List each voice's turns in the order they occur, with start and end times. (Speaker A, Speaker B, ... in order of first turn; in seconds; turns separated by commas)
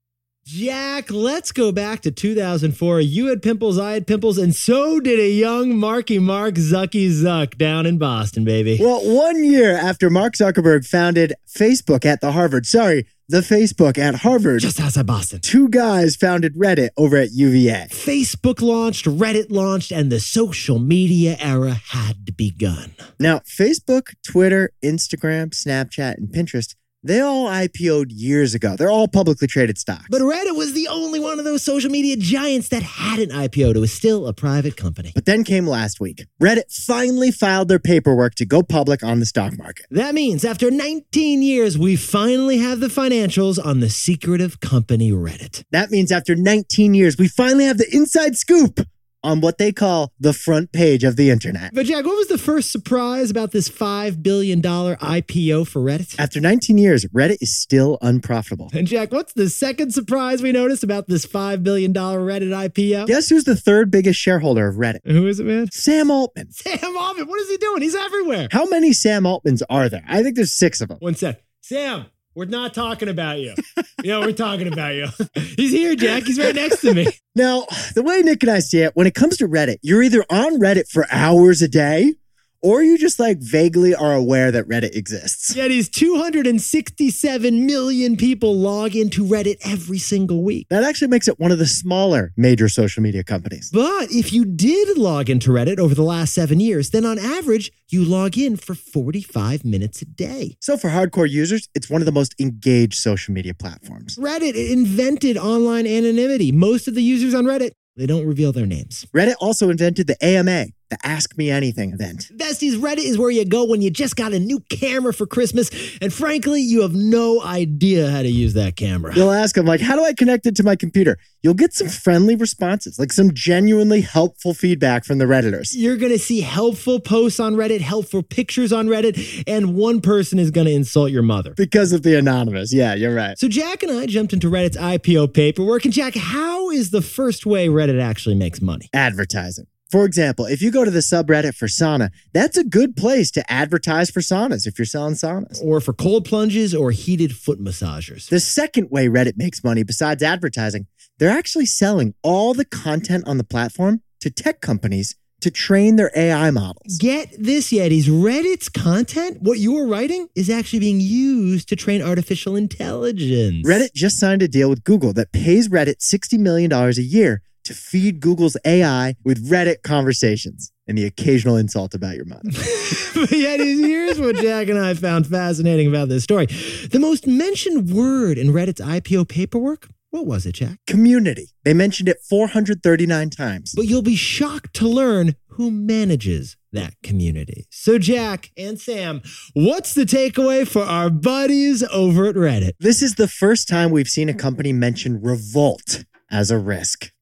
Speaker A: 0.5-8.8, Speaker B: 8.8-14.7, Speaker A: 14.6-15.4, Speaker B: 15.4-17.9, Speaker A: 17.9-23.0, Speaker B: 23.2-30.2, Speaker A: 30.1-35.1, Speaker B: 35.1-39.9, Speaker A: 39.9-45.6, Speaker B: 45.7-51.7, Speaker A: 51.7-56.2, Speaker B: 56.2-58.7, Speaker A: 58.7-63.1, Speaker B: 63.1-65.0, Speaker A: 65.0-65.7, Speaker B: 65.7-66.5, Speaker A: 66.5-68.5, Speaker B: 68.5-71.0, Speaker A: 71.0-77.1, Speaker B: 77.2-85.6, Speaker A: 85.5-90.7, Speaker B: 90.7-93.7, Speaker A: 93.7-100.5, Speaker B: 100.6-104.2, Speaker A: 104.2-109.1, Speaker B: 109.1-112.3, Speaker A: 112.3-119.3, Speaker B: 119.1-125.7, Speaker A: 125.7-131.6, Speaker B: 131.6-133.3, Speaker A: 133.4-138.9, Speaker B: 138.9-145.6, Speaker A: 145.6-148.3, Speaker B: 148.3-157.0, Speaker A: 156.9-163.8, Speaker B: 163.6-172.7, Speaker A: 172.5-180.8, Speaker B: 180.9-183.8, Speaker A: 183.8-192.8, Speaker B: 192.8-197.1